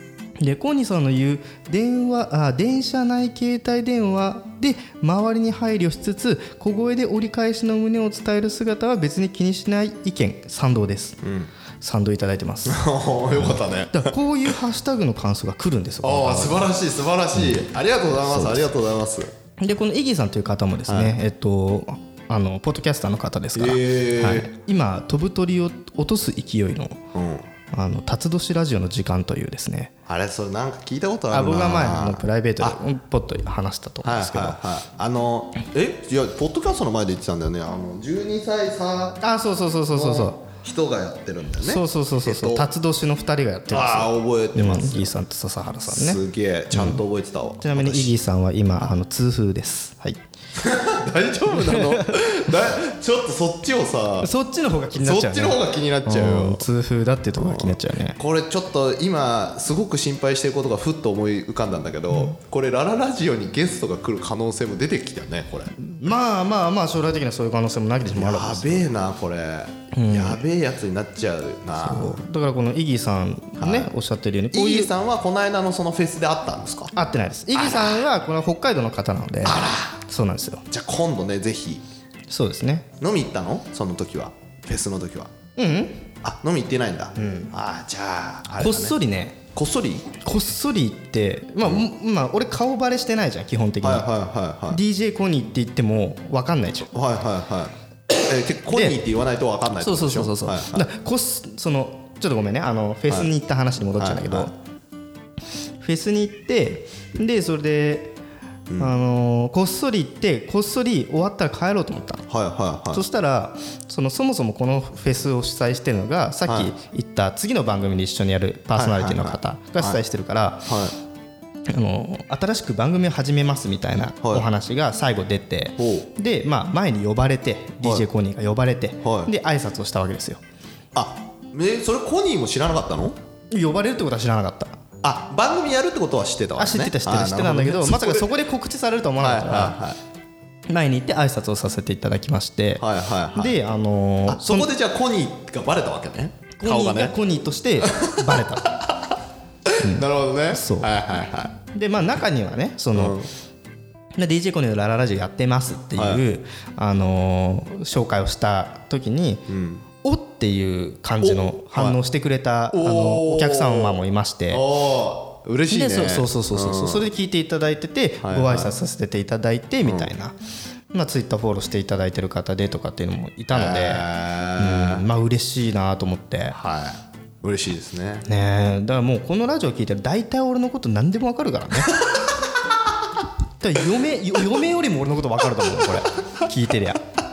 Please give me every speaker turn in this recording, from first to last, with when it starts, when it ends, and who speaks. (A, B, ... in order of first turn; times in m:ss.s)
0:00.4-0:11.2 A
0:11.2-0:11.5 B
0:11.8-0:12.8 A
0:12.6-0:14.1 B
0:13.9-0:16.7 A
0:16.0-0:19.3 B
0:18.3-0:18.6 A
0:19.6-0:27.0 A
0:20.9-0:21.2 B
0:23.5-0:24.5 B
0:27.1-0:27.5 B
0:27.7-0:29.9 A
0:30.0-0:32.8 B
0:31.3-0:34.6 A
0:34.0-0:39.2 B
0:39.2-0:40.4 A
0:39.9-0:42.7 B
0:41.6-0:47.0 A
0:43.7-0:45.1 B
0:45.8-0:48.2 B
0:47.6-0:50.2 A
0:50.6-0:54.3 B
0:51.5-0:52.2 A
0:54.2-0:58.2 A
0:55.0-0:56.6 B
0:57.4-1:05.7 B
1:05.8-1:08.9 A
1:08.1-1:12.2 B
1:09.9-1:10.4 A
1:11.8-1:14.9 A
1:13.6-1:13.9 B
1:14.5-1:16.9 B
1:16.9-1:20.6 A
1:17.5-1:18.0 B
1:19.4-1:20.0 B
1:20.7-1:21.8 B
1:22.3-1:22.9 A
1:23.0-1:25.3 B
1:25.6-1:26.1 A
1:26.2-1:29.0 B
1:27.2-1:27.5 A
1:28.6-1:29.4 A
1:29.5-1:30.1 B
1:30.2-1:34.1 A
1:33.8-1:34.8 B
1:34.7-1:36.9 A
1:36.9-1:40.9 B
1:38.7-1:39.0 A
1:39.8-1:44.5 A
1:44.0-1:44.5 B
1:45.8-1:48.2 A
1:48.7-1:48.9 B
1:48.8-1:52.2 A
1:52.3-1:53.0 B
1:52.9-2:00.7 A
1:56.5-1:56.7 B
1:58.7-2:00.0 B
2:00.6-2:00.9 B
2:01.7-2:10.4 A
2:04.2-2:04.5 B
2:05.8-2:06.1 B
2:09.0-2:09.3 B
2:10.9-2:13.2 B
2:13.5-2:14.8 A
2:15.0-2:18.3 B
2:16.6-2:19.8 A
2:19.2-2:20.0 B
2:20.7-2:22.8 A
2:22.8-2:23.6 B
2:23.3-2:24.7 A
2:24.3-2:27.1 B
2:26.6-2:28.7 A
2:27.8-2:29.1 B
2:29.6-2:31.6 B
2:29.8-2:30.9 A
2:31.7-2:33.2 A
2:32.9-2:33.3 B
2:34.2-2:39.4 A
2:36.0-2:36.2 B
2:39.5-2:39.8 B
2:40.0-2:44.6 A
2:41.2-2:42.0 B
2:42.7-2:47.1 B
2:45.7-2:50.3 A
2:48.2-2:48.7 B
2:49.8-2:50.1 B
2:50.9-2:56.6 A
2:53.5-2:55.0 B
2:56.5-2:58.2 B
2:58.2-3:02.0 A
3:03.6-3:07.0 A